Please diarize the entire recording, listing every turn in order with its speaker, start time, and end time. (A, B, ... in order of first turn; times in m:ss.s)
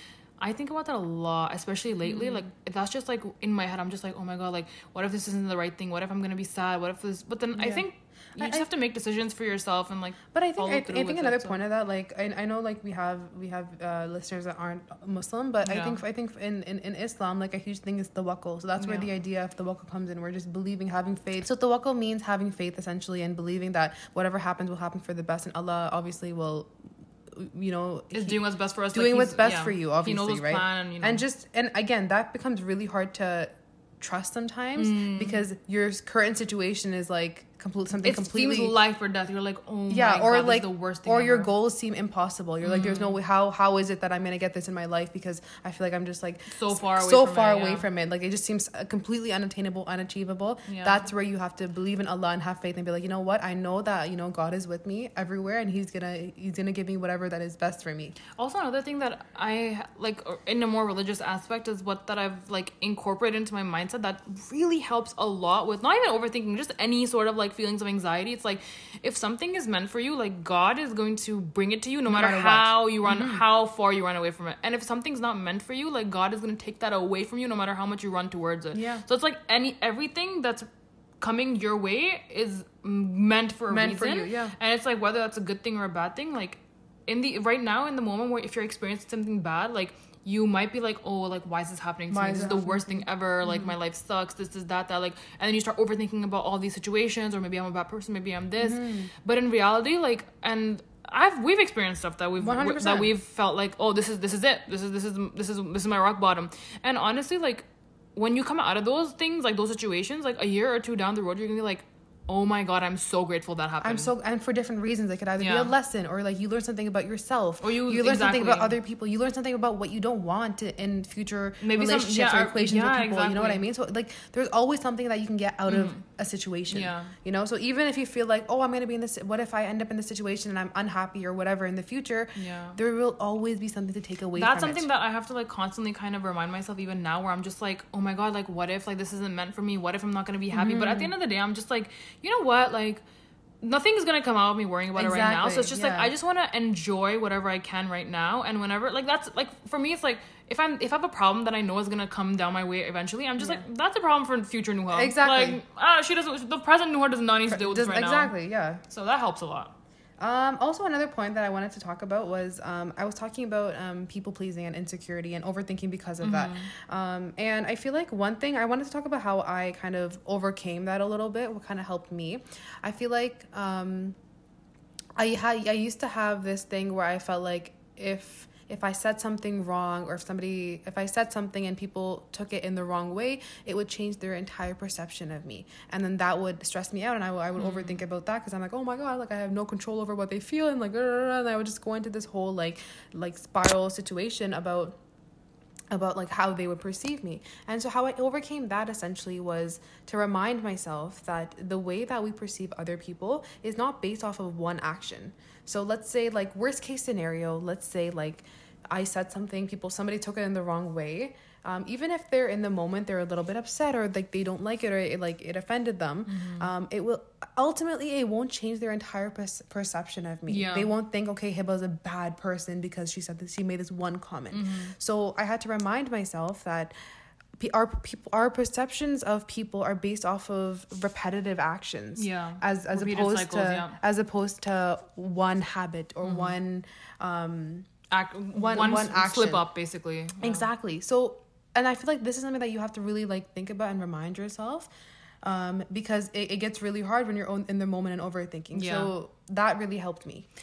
0:00.4-0:11.6 A
0:02.1-0:02.5 B
0:07.6-0:07.9 B
0:08.4-0:08.7 B
0:10.3-0:26.7 B
0:15.6-0:16.0 A
0:18.8-0:19.1 A
0:27.3-0:28.4 B
0:28.1-0:31.2 A
0:28.9-0:38.8 B
0:34.8-0:35.5 A
0:38.0-0:41.5 A
0:39.9-0:58.2 B
0:42.6-0:43.2 A
0:46.5-0:47.9 A
0:50.7-0:51.1 A
0:58.3-1:20.7 A
1:12.1-1:13.4 B
1:18.7-1:19.0 B
1:21.2-1:54.1 A
1:23.7-1:24.6 B
1:32.1-1:33.7 B
1:38.6-1:39.1 B
1:42.4-1:43.1 B
1:53.8-2:14.9 B
1:55.4-1:55.7 A
1:57.6-1:58.8 A
2:01.6-2:03.6 A
2:05.7-2:06.0 A
2:06.7-2:07.1 A
2:12.4-2:12.8 A
2:14.4-2:23.0 A
2:20.5-2:21.1 B
2:23.6-2:38.3 A
2:25.0-2:26.1 B
2:33.4-2:33.6 B
2:34.9-2:35.6 B
2:37.5-2:38.8 B
2:38.9-2:39.7 A
2:40.2-2:54.2 B
2:46.2-2:46.7 A
2:55.2-3:15.0 B
3:07.6-3:08.0 A
3:15.9-3:46.9 B
3:36.3-3:36.7 A
3:40.5-3:40.9 A
3:44.5-3:45.0 A
3:47.6-3:57.9 B
3:52.2-3:54.0 A
3:56.2-3:56.5 A
3:58.1-4:00.7 A
3:58.5-3:59.7 B
4:00.4-4:04.9 B
4:05.4-4:10.5 B
4:08.7-4:09.1 A